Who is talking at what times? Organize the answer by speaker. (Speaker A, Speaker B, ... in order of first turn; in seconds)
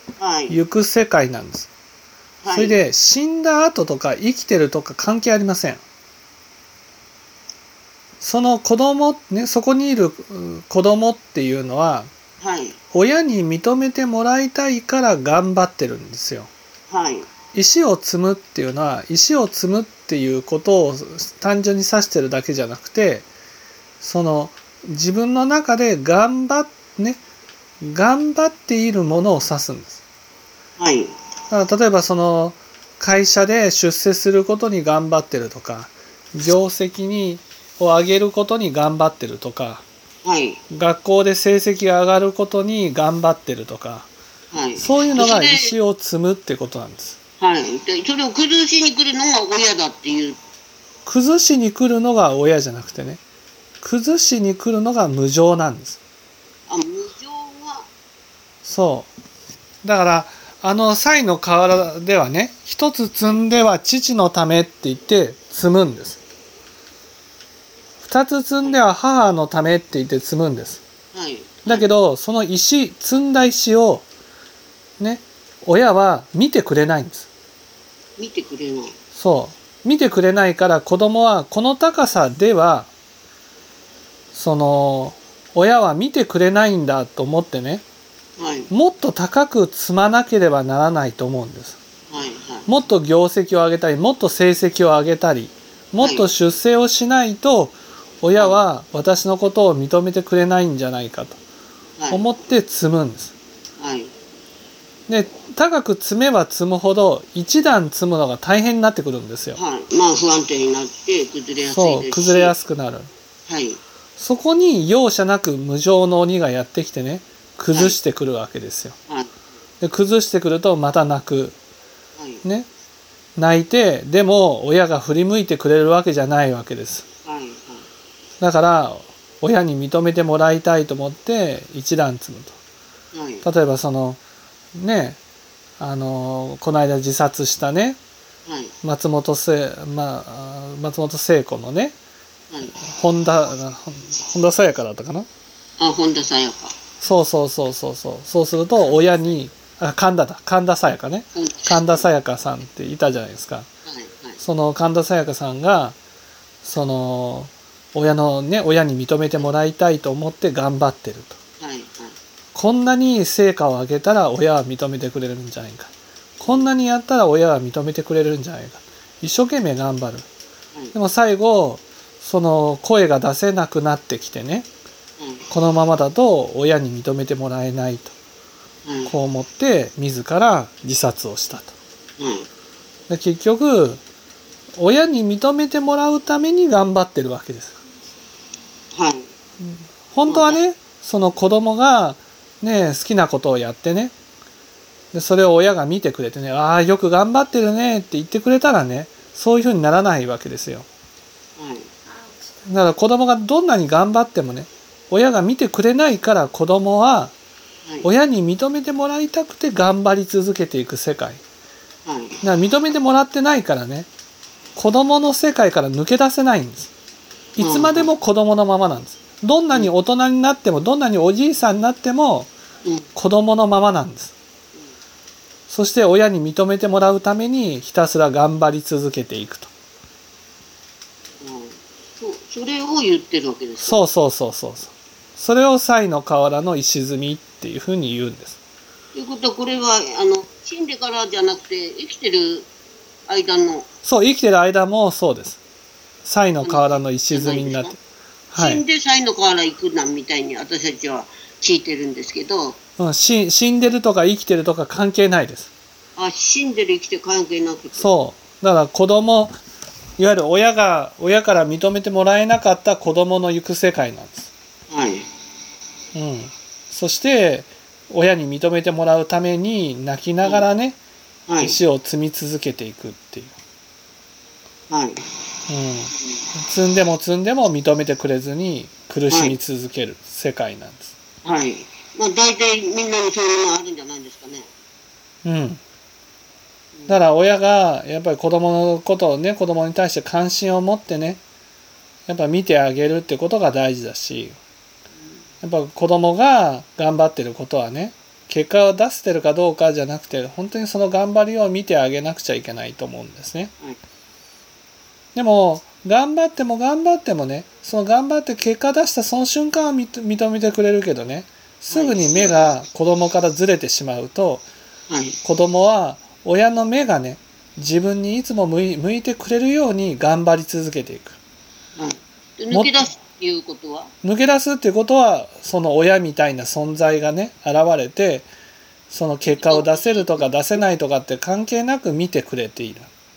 Speaker A: 0.2-0.6, 2.4-2.8, 12.4-12.8, 16.9-17.3, 30.8-31.1, 40.2-40.6, 44.5-45.8, 47.4-50.4, 56.7-57.9, 71.1-71.9, 78.2-78.9, 88.4-88.7, 92.1-92.7, 96.0-96.3, 102.0-102.2, 103.8-104.1, 109.5-112.5, 113.5-113.8, 122.2-122.4, 127.2-127.8, 133.1-133.4, 138.5-138.7, 142.5-142.8, 145.8-146.8, 151.3-152.1, 153.9-154.4, 161.6-162.2, 166.4-166.7, 175.2-175.5, 178.8-179.1, 182.2-182.5, 188.9-189.3, 190.3-190.6, 201.6-201.9, 212.1-212.4, 217.6-218.1, 231.4-234.0, 239.1-242.7, 243.3-243.9, 246.6-248.0, 248.6-252.8, 256.2-258.1, 264.9-265.3, 271.5-271.8, 274.9-275.2, 279.3-279.6, 281.4-284.7, 311.9-312.7, 315.1-315.4, 322.0-324.1, 329.4-330.7
Speaker B: 0.5-1.7, 2.5-5.8, 8.2-12.1, 12.9-16.5, 17.5-23.3, 24.0-27.2, 27.8-30.0, 31.5-39.9, 40.7-44.1, 44.8-47.2, 51.0-53.2, 53.8-56.0, 58.6-59.1, 59.8-66.2, 68.0-70.8, 71.7-74.0, 75.0-77.3, 79.2-82.9, 84.3-87.8, 88.7-91.8, 92.7-101.4, 102.1-103.3, 105.1-109.6, 111.7-113.1, 114.2-119.0, 119.8-121.6, 123.4-127.1, 128.4-132.6, 133.4-134.2, 134.8-135.2, 135.8-138.0, 138.8-142.0, 142.8-145.3, 147.0-153.7, 154.4-156.0, 156.6-161.4, 162.5-165.9, 166.4-170.3, 170.9-174.7, 175.5-178.1, 179.1-181.8, 183.1-184.0, 184.8-187.8, 189.6-194.1, 195.1-200.9, 202.7-207.3, 208.0-211.4, 212.4-214.1, 214.8-216.9, 217.6-222.5, 223.2-224.3, 225.7-229.7, 233.8-238.6, 244.0-245.6, 246.2-248.0, 248.5-248.8, 253.0-255.7, 258.0-259.6, 260.2-264.5, 266.1-271.0, 271.6-273.6, 275.7-281.1, 285.4-285.8, 287.1-291.4, 292.3-294.6, 295.6-303.7, 305.4-314.7, 315.4-321.4, 322.7-323.1, 324.2-328.5, 329.1-333.1